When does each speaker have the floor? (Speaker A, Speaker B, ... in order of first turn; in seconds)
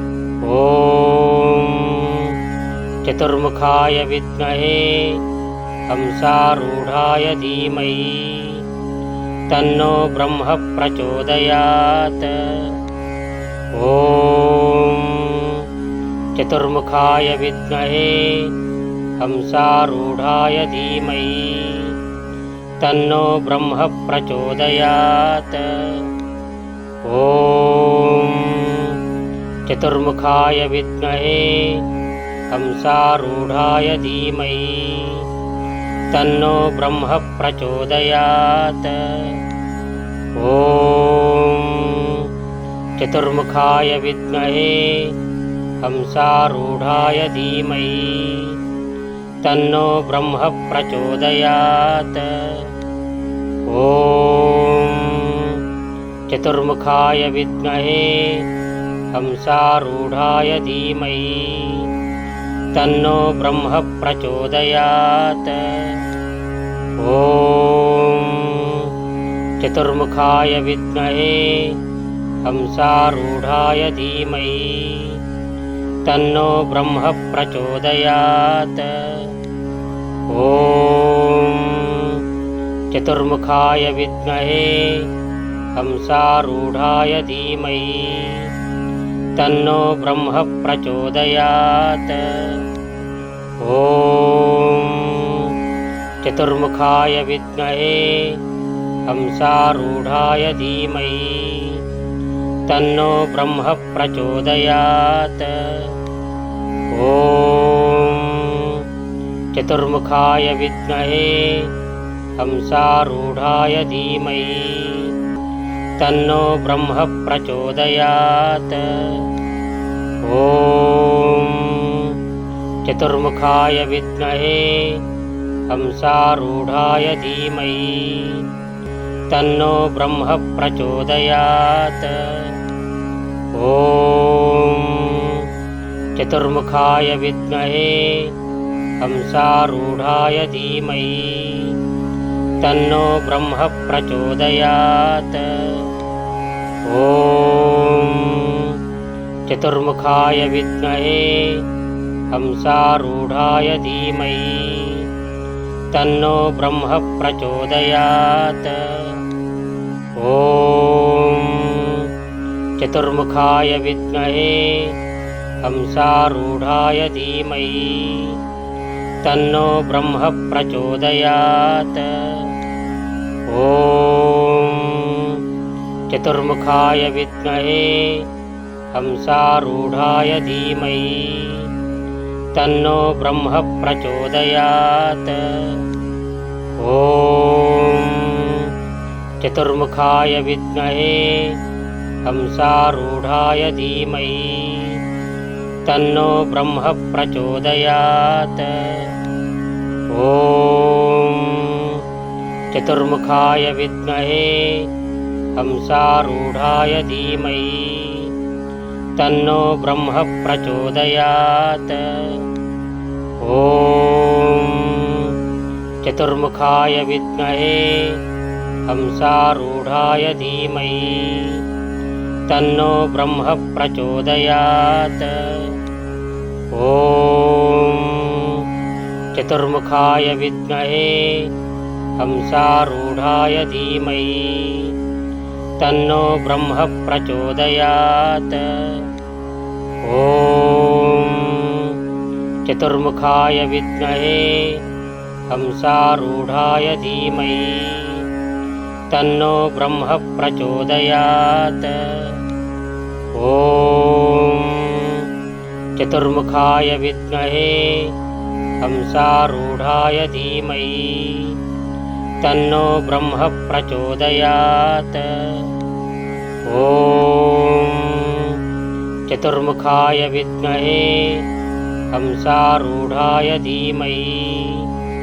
Speaker A: 0.4-2.4, 3.0-5.2, 5.9-8.6, 9.5-12.8, 13.7-15.7, 16.4-18.5, 19.2-22.0, 22.8-26.1, 27.0-29.0, 29.7-31.8, 32.5-35.3, 36.1-39.4, 40.4-42.3, 43.0-45.2, 45.8-48.6, 49.4-52.7, 53.7-55.6, 56.3-58.5, 59.1-61.9, 62.7-66.0, 67.0-68.9, 69.6-71.8, 72.4-75.2, 76.0-79.3, 80.3-82.2, 82.9-85.1, 85.7-88.5, 89.4-92.7, 93.6-95.5, 96.2-98.4, 99.1-101.8, 102.7-106.0, 106.9-108.8, 109.5-111.7, 112.3-115.1, 116.0-119.3, 120.2-122.2, 122.8-125.0, 125.7-128.5, 129.3-132.6, 133.5-135.5, 136.2-138.3, 139.0-141.8, 142.6-145.9, 146.8-148.8, 149.5-151.7, 152.3-155.1, 155.9-159.2, 160.2-162.1, 162.8-165.0, 165.6-168.4, 169.2-172.6, 173.5-175.4, 176.1-178.3, 178.9-181.7, 182.5-185.9, 186.8-188.7, 189.4-191.6, 192.2-195.0, 195.8-199.2, 200.1-202.0, 202.7-204.9, 205.5-208.3, 209.2-212.5, 213.4-215.3, 216.0-218.2, 218.9-221.6, 222.5-225.8, 226.7-228.7, 229.3-231.5, 232.2-234.9, 235.8-239.1, 240.0-242.0, 242.7-244.8, 245.5-248.3, 249.1-252.4, 253.3-255.3, 255.9-258.1, 258.8-261.6, 262.4-265.7, 266.6-268.6, 269.3-271.5, 272.1-274.9